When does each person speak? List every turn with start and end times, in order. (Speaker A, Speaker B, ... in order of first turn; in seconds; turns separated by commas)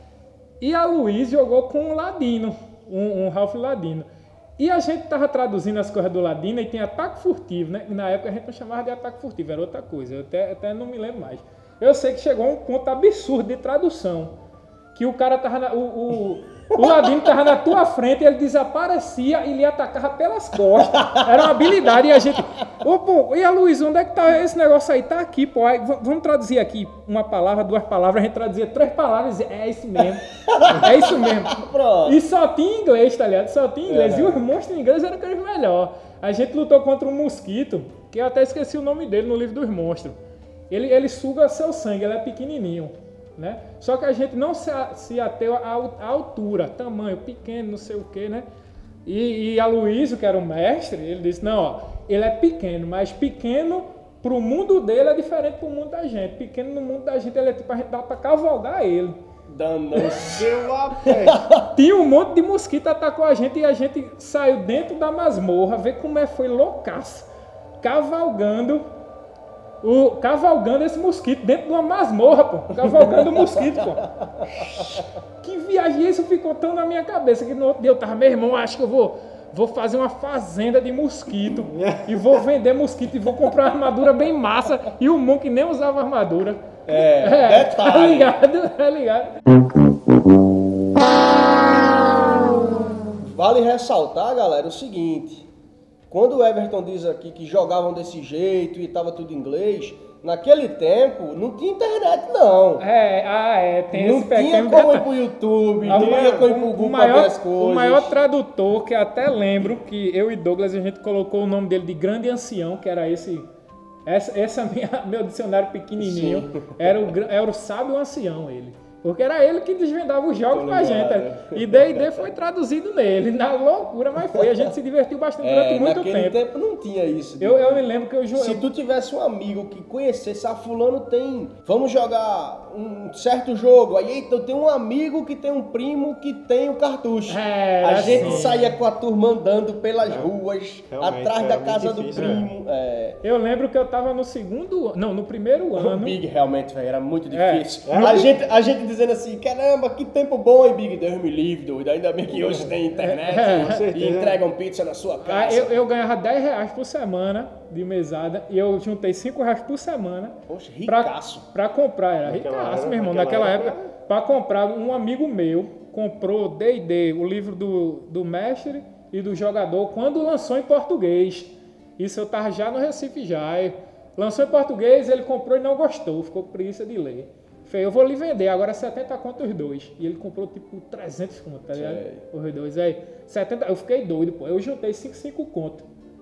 Speaker A: 0.6-14.3, Speaker A: 14.9-40.2, Speaker B: 30.4-32.2, Speaker B: 33.9-34.4, Speaker A: 40.7-48.5, Speaker A: 49.0-59.2, Speaker B: 59.5-60.5, Speaker C: 60.2-61.4, Speaker B: 61.1-61.6, Speaker A: 61.7-67.3, Speaker A: 67.8-68.8, Speaker A: 69.8-74.0, Speaker A: 75.4-89.3, Speaker C: 81.7-82.3, Speaker B: 86.9-88.3, Speaker B: 93.2-95.5, Speaker B: 96.1-102.8, Speaker A: 102.8-105.1, Speaker B: 103.9-108.1, Speaker C: 105.8-106.5, Speaker A: 105.9-113.5, Speaker A: 114.0-126.4, Speaker B: 116.0-116.9, Speaker B: 120.5-122.3, Speaker B: 125.4-143.2, Speaker A: 127.4-128.7, Speaker A: 137.3-138.7, Speaker C: 138.0-138.5, Speaker C: 140.9-142.5, Speaker A: 143.2-146.2, Speaker B: 145.8-155.8, Speaker A: 147.3-147.7, Speaker C: 147.8-148.3, Speaker A: 153.0-153.8, Speaker C: 153.4-154.4, Speaker A: 155.2-185.8, Speaker B: 160.5-161.4, Speaker C: 162.2-163.9, Speaker B: 181.7-182.2